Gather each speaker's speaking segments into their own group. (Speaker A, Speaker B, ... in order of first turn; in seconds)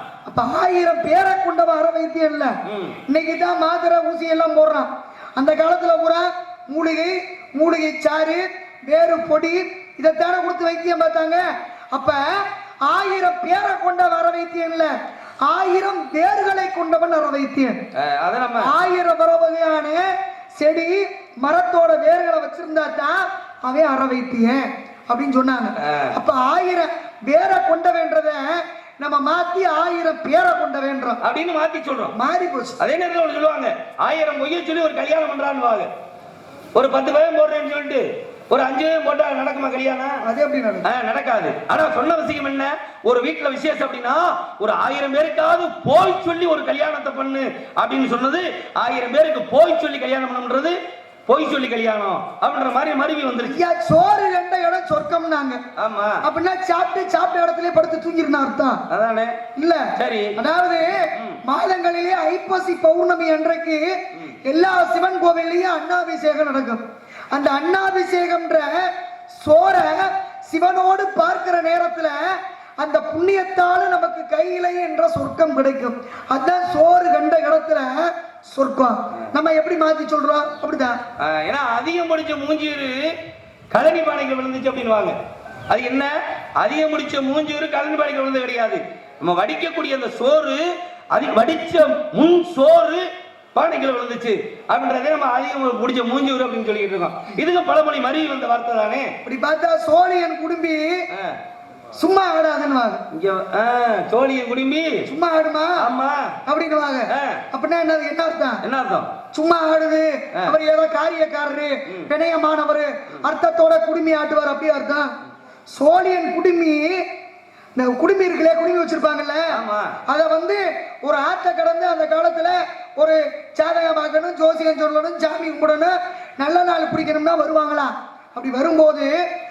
Speaker A: 0.2-2.6, 3.1-14.9, 15.4-17.8, 18.6-31.2, 32.1-32.8, 40.2-40.9, 53.4-55.6, 56.2-58.8, 59.5-66.8, 67.3-81.0, 99.2-101.0, 102.0-103.0, 105.0-105.8, 106.5-108.6, 109.3-115.1, 115.7-117.0, 117.7-119.5, 120.1-129.2
Speaker B: 2.6-3.0, 17.9-18.7, 25.8-26.1, 31.2-32.1, 32.8-35.9, 36.7-40.2, 40.8-50.8, 51.3-53.6, 55.8-56.2, 58.9-59.4, 60.0-60.4, 81.2-83.1, 83.7-85.2, 85.7-99.1, 101.1-101.4, 103.1-105.0, 105.8-106.3, 107.1-107.4, 108.6-109.1, 119.5-119.9